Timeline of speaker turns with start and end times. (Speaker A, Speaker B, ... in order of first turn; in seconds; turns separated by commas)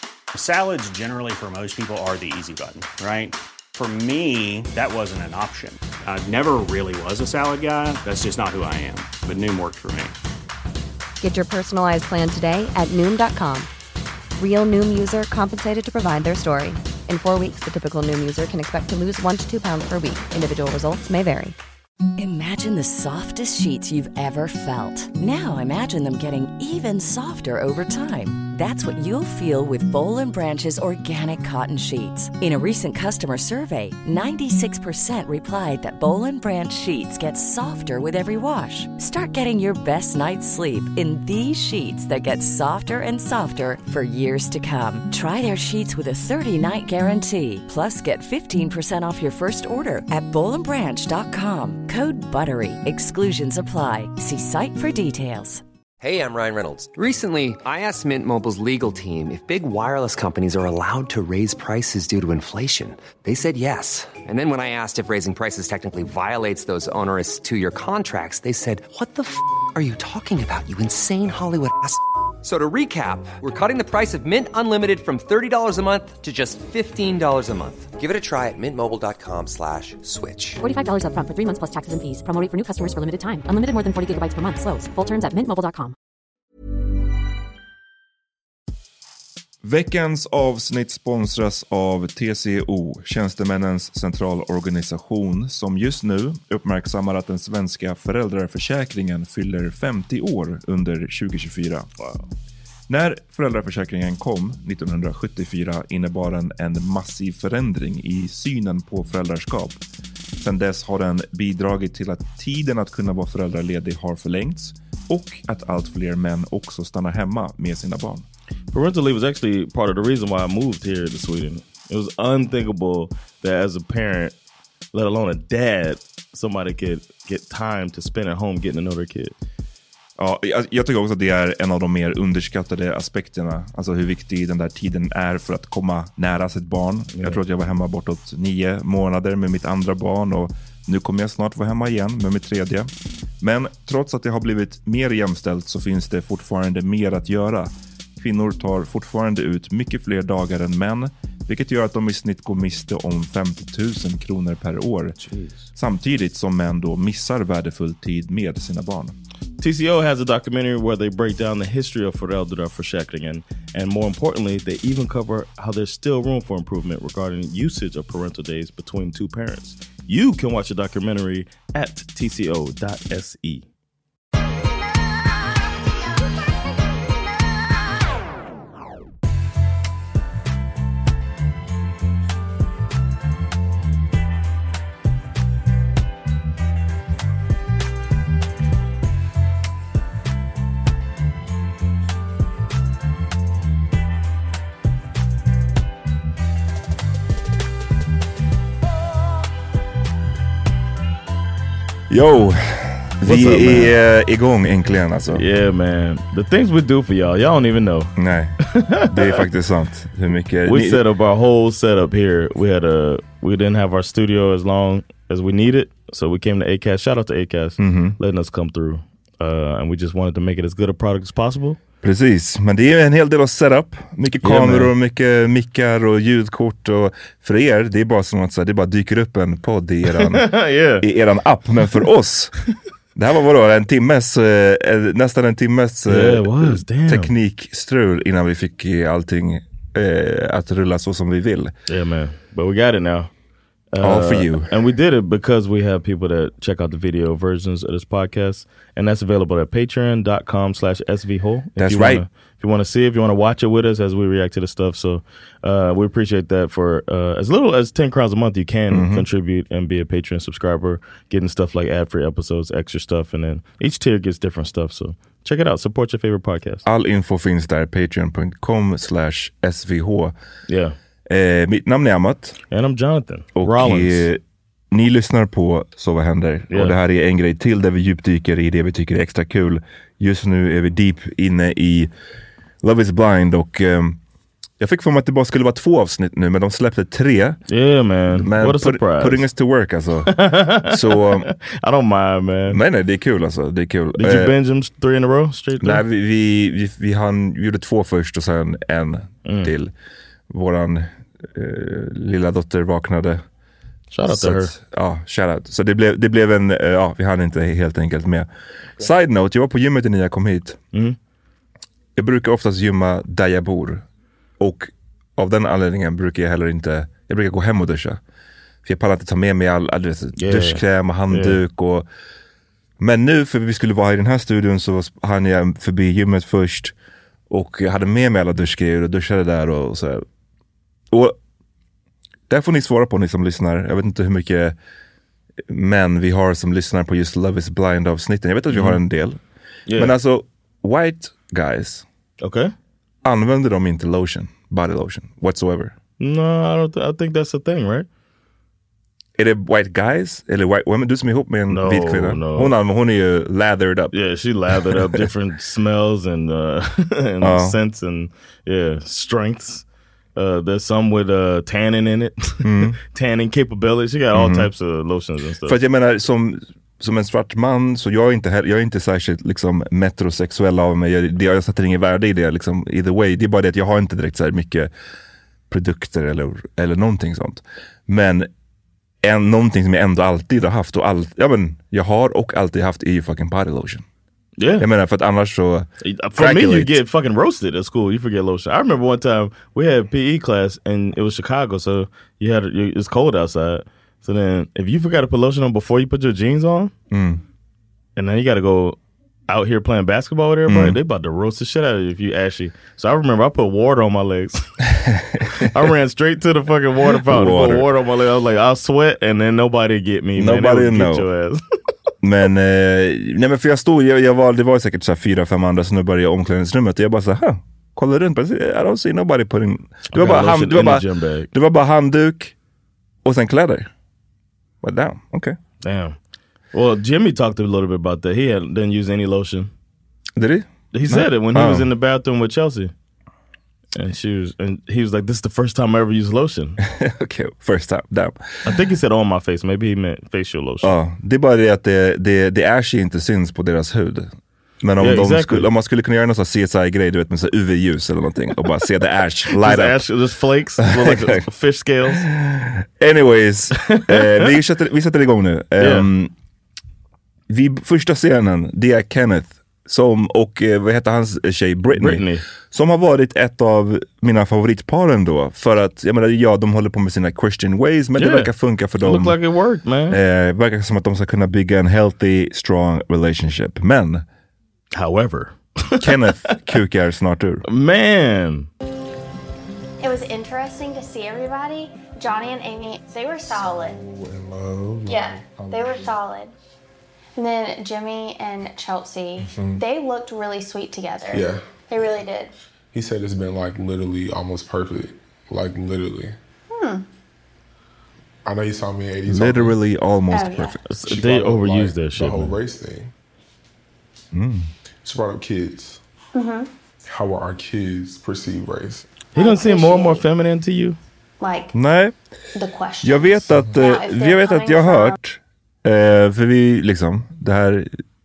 Speaker A: 0.3-10.1, Speaker B: 11.2-13.7, Speaker B: 14.3-21.6, Speaker C: 22.2-55.6, Speaker D: 56.0-80.6, Speaker E: 80.6-86.0, Speaker F: 89.6-101.9, Speaker G: 102.0-102.3, Speaker F: 102.9-109.8, Speaker F: 110.4-118.3, Speaker G: 118.7-124.4, Speaker G: 124.9-129.3, Speaker F: 130.2-155.2, Speaker G: 137.1-137.4, Speaker G: 155.2-155.6, Speaker F: 155.8-159.2, Speaker G: 159.6-173.7, Speaker F: 202.1-205.4, Speaker G: 203.2-203.9, Speaker G: 205.3-208.1, Speaker F: 208.2-208.6, Speaker G: 208.7-209.4, Speaker F: 209.1-211.0, Speaker G: 210.7-221.8, Speaker F: 217.8-218.2, Speaker F: 222.0-230.5, Speaker G: 224.4-224.9, Speaker G: 230.1-231.1, Speaker F: 231.0-232.5, Speaker F: 233.2-241.7, Speaker G: 236.1-237.3, Speaker G: 241.9-243.3, Speaker G: 243.9-266.8, Speaker F: 244.0-244.7, Speaker F: 251.8-252.2, Speaker F: 258.9-259.2, Speaker F: 266.9-270.4, Speaker G: 270.7-270.9, Speaker F: 271.3-272.6, Speaker G: 272.7-274.3, Speaker F: 273.6-274.4, Speaker F: 274.9-282.1, Speaker G: 276.7-277.0, Speaker F: 282.8-284.2, Speaker F: 284.8-287.6, Speaker G: 287.7-289.5, Speaker F: 288.3-291.5, Speaker G: 290.3-292.8, Speaker F: 292.7-294.5, Speaker G: 294.2-296.0, Speaker F: 295.8-299.9, Speaker G: 299.4-299.7, Speaker F: 300.5-303.4, Speaker G: 304.1-304.7, Speaker F: 304.3-310.8, Speaker F: 312.2-314.1, Speaker F: 314.6-318.2, Speaker F: 318.9-322.1, Speaker G: 320.4-321.6, Speaker F: 323.0-326.9, Speaker F: 327.5-330.2, Speaker F: 331.1-331.4, Speaker F: 332.5-334.8, Speaker F: 335.7-339.4, Speaker G: 338.7-339.0, Speaker G: 339.9-340.1, Speaker F: 340.0-342.1, Speaker G: 342.4-342.7, Speaker F: 343.2-346.0, Speaker G: 346.2-348.1, Speaker F: 349.4-354.1, Speaker G: 351.7-352.7, Speaker G: 354.1-359.9, Speaker F: 354.8-355.2, Speaker F: 357.4-357.8, Speaker G: 360.4-365.8, Speaker F: 362.6-363.0, Speaker F: 364.3-364.7, Speaker F: 365.6-374.9, Speaker F: 375.7-378.5, Speaker F: 379.2-384.1, Speaker G: 384.6-384.9, Speaker F: 384.8-387.0, Speaker G: 386.0-396.9, Speaker F: 397.1-397.4, Speaker G: 398.2-399.0, Speaker G: 399.5-404.6, Speaker F: 400.7-401.0, Speaker F: 404.9-405.9, Speaker G: 405.6-411.6, Speaker F: 407.2-407.9, Speaker F: 410.4-411.2, Speaker F: 412.2-422.6, Speaker G: 420.1-421.5, Speaker F: 423.2-423.9, Speaker F: 424.8-425.6, Speaker G: 425.8-426.2, Speaker G: 426.7-429.7, Speaker F: 430.4-431.9, Speaker G: 430.9-432.9, Speaker G: 433.9-436.8, Speaker F: 436.8-438.4, Speaker G: 438.7-440.9, Speaker F: 440.8-450.0, Speaker G: 445.0-445.7, Speaker G: 449.6-452.2, Speaker F: 450.8-451.4, Speaker F: 452.1-456.3, Speaker G: 453.8-454.5, Speaker G: 455.8-456.1, Speaker F: 457.5-469.4, Speaker G: 461.9-462.4, Speaker G: 468.2-470.2, Speaker F: 470.1-474.2, Speaker G: 474.9-476.6, Speaker F: 476.0-477.6, Speaker G: 477.7-478.7, Speaker H: 480.0-484.0, Speaker I: 483.5-486.1, Speaker H: 485.1-486.5, Speaker H: 487.4-492.5, Speaker I: 489.4-489.8, Speaker I: 491.3-491.6, Speaker I: 492.9-496.4, Speaker H: 496.7-497.1, Speaker I: 498.5-499.8, Speaker F: 499.3-500.8, Speaker H: 500.3-500.8, Speaker G: 500.9-502.5, Speaker I: 501.1-503.1, Speaker F: 504.3-504.7, Speaker I: 505.0-506.0, Speaker H: 506.3-506.7, Speaker I: 507.1-509.2, Speaker G: 509.3-511.0, Speaker H: 509.3-510.2, Speaker H: 511.4-511.7, Speaker F: 511.7-512.1, Speaker H: 512.5-515.2, Speaker F: 513.0-517.9